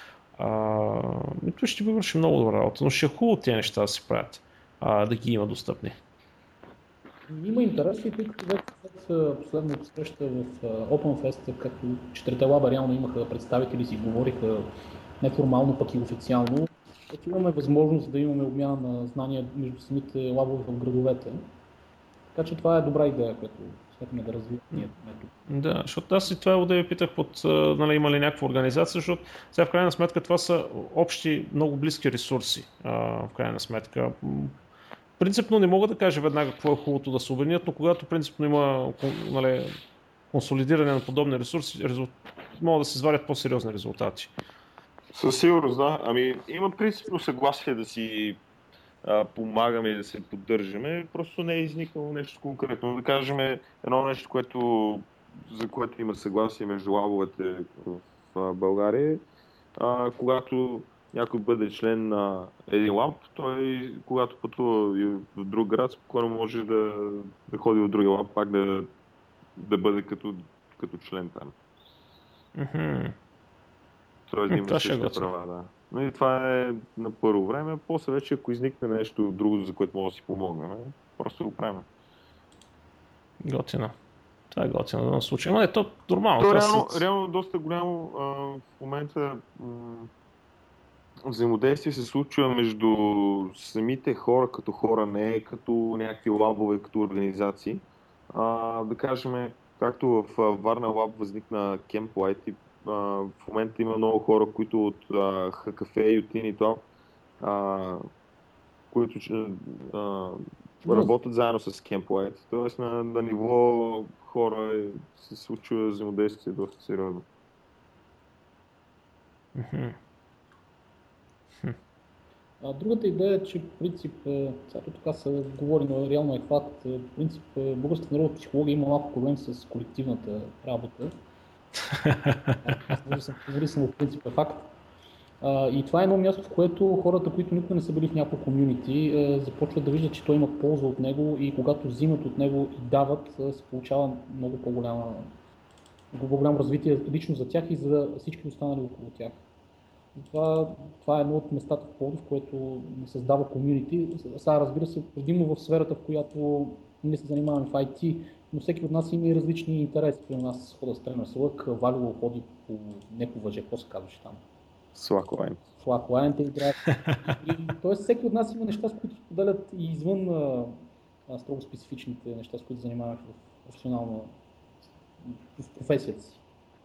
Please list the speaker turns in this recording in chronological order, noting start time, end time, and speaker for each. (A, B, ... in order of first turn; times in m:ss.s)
0:00.4-0:05.9 A
0:07.3-0:14.7 B
0:15.2-0:21.4 B
0:22.3-0:25.3 B
0:25.5-0:34.6 A
0:35.2-0:39.7 A
0:40.3-0:44.3 A
0:45.1-0:48.4 C
0:49.0-0:59.2 C
0:59.8-1:08.9 C
1:09.6-1:11.5 C
1:12.6-1:13.1 A
1:14.3-1:21.9 C
1:14.5-1:15.3 A
1:23.4-1:23.9 A
1:24.5-1:27.1 A
1:26.4-1:30.1 C
1:31.2-1:46.9 C
1:47.4-1:48.0 C
1:48.9-1:57.2 C
1:59.5-2:00.0 A
2:02.6-2:11.1 B
2:11.9-2:12.6 A
2:12.6-2:14.7 B
2:15.4-2:25.3 B
2:26.1-2:29.4 B
2:30.1-2:44.4 B
2:44.9-2:45.6 C
2:45.8-2:50.8 B
2:51.3-2:54.3 B
2:55.2-2:56.4 B